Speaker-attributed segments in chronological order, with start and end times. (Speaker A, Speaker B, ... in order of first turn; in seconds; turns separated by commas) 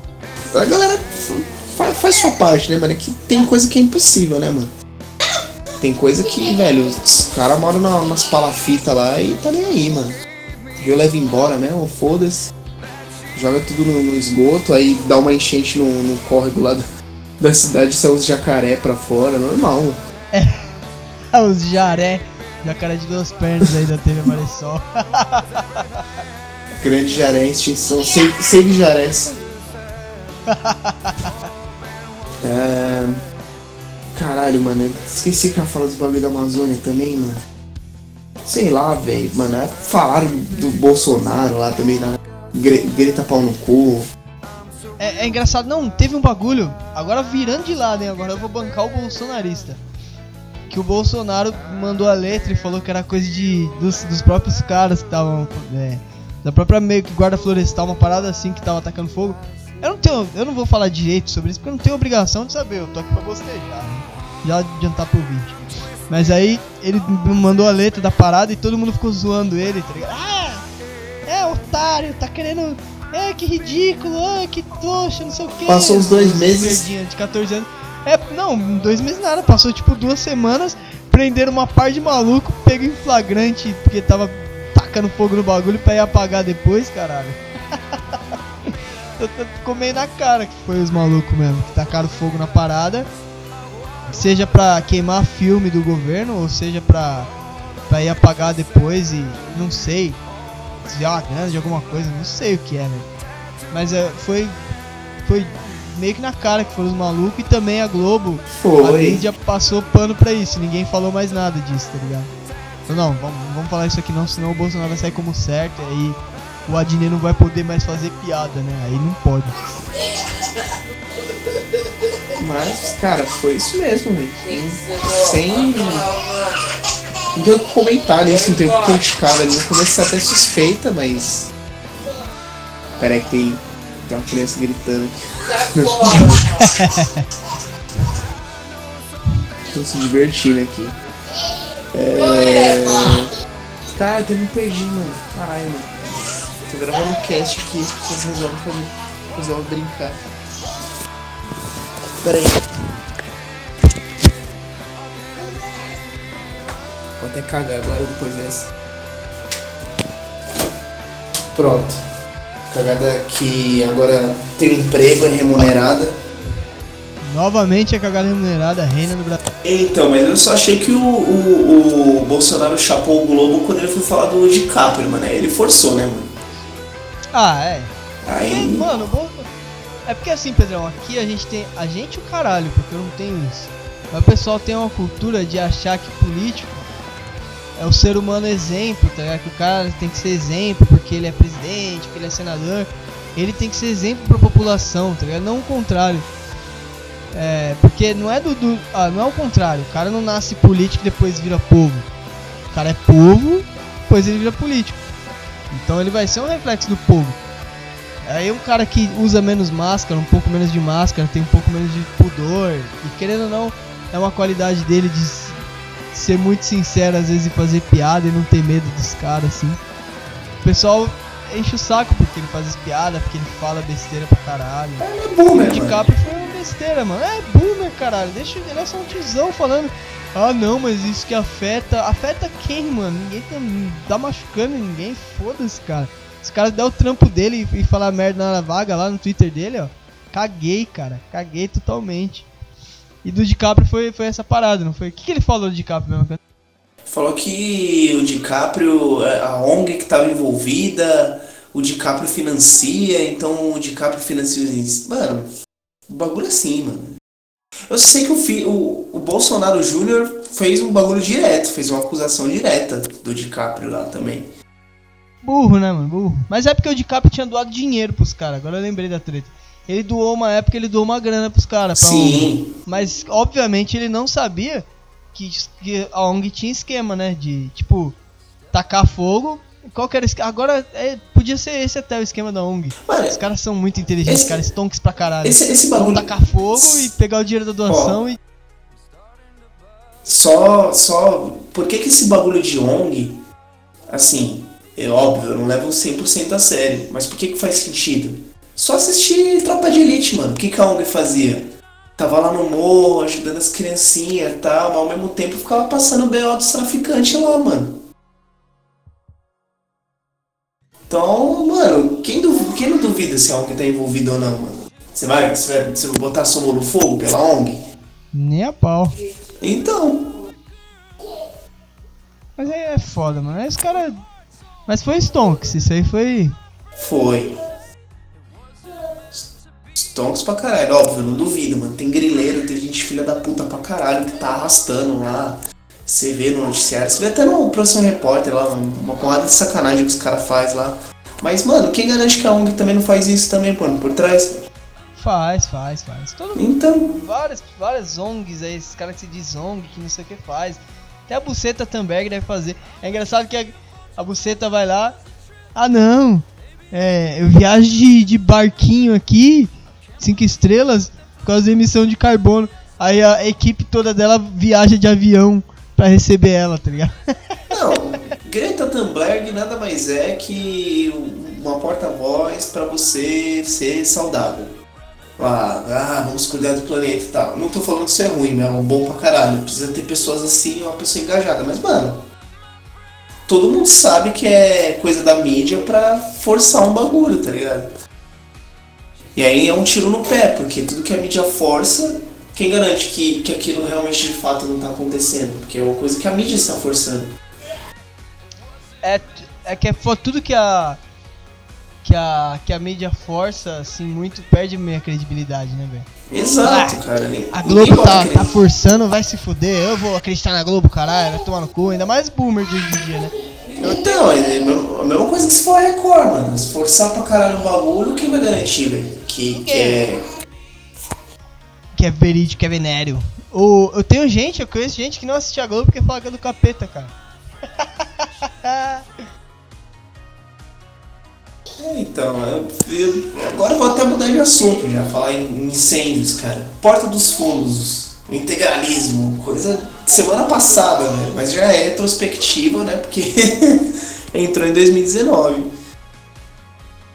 Speaker A: 0.5-4.7, Speaker A: 5.8-10.2, Speaker A: 10.8-12.5, Speaker A: 13.3-16.8, Speaker A: 17.4-20.0, Speaker B: 20.3-20.7, Speaker B: 21.3-25.8, Speaker A: 26.8-29.3, Speaker B: 30.5-31.3, Speaker A: 32.4-33.2, Speaker A: 34.1-37.4, Speaker A: 38.5-44.1, Speaker B: 45.0-49.8, Speaker B: 50.7-65.6, Speaker B: 66.1-70.6, Speaker B: 71.3-87.4, Speaker A: 75.7-76.8, Speaker B: 89.2-93.1, Speaker B: 94.1-97.3, Speaker B: 97.9-100.2, Speaker B: 100.8-103.1, Speaker B: 103.7-104.6, Speaker B: 105.2-112.3, Speaker A: 108.5-109.2, Speaker B: 112.9-119.5, Speaker A: 122.4-126.1, Speaker A: 127.3-131.5, Speaker A: 133.0-136.9, Speaker B: 136.1-137.2, Speaker A: 139.7-140.9, Speaker A: 141.9-143.3, Speaker A: 143.9-145.9, Speaker A: 146.7-150.2, Speaker A: 152.2-152.6, Speaker A: 157.2-158.7, Speaker A: 161.5-162.0, Speaker A: 162.7-166.1, Speaker B: 167.2-169.4, Speaker A: 169.6-176.3, Speaker B: 177.3-177.9, Speaker A: 178.2-178.9, Speaker B: 178.5-179.5, Speaker B: 180.1-186.8, Speaker B: 187.8-196.3, Speaker B: 197.3-202.1, Speaker B: 202.7-205.0, Speaker B: 205.7-207.4, Speaker B: 208.2-215.6, Speaker B: 216.1-219.8, Speaker B: 220.6-242.4, Speaker A: 225.0-226.1, Speaker B: 243.2-246.4, Speaker A: 247.1-255.5, Speaker A: 256.1-257.1, Speaker A: 257.9-264.5, Speaker B: 265.4-278.2, Speaker A: 272.0-272.7, Speaker B: 278.7-288.4, Speaker A: 283.1-283.4, Speaker A: 284.2-284.6, Speaker A: 285.4-287.1, Speaker A: 287.9-288.2, Speaker A: 290.2-293.4, Speaker A: 294.1-308.0, Speaker A: 311.1-317.8, Speaker B: 318.3-319.1, Speaker A: 319.6-320.3, Speaker B: 322.6-324.1, Speaker B: 324.9-326.6, Speaker A: 327.0-327.5, Speaker A: 329.3-344.5, Speaker B: 345.2-355.2, Speaker A: 346.5-347.2, Speaker B: 355.8-367.1, Speaker A: 367.7-374.8, Speaker A: 375.4-382.2, Speaker A: 383.5-387.9, Speaker A: 389.3-397.3, Speaker B: 399.0-401.0, Speaker B: 402.0-406.1, Speaker A: 406.3-408.6, Speaker B: 406.6-407.0, Speaker B: 407.5-413.3, Speaker A: 413.8-420.2, Speaker B: 419.5-420.0, Speaker B: 421.9-427.1, Speaker B: 428.0-429.2, Speaker A: 431.8-445.7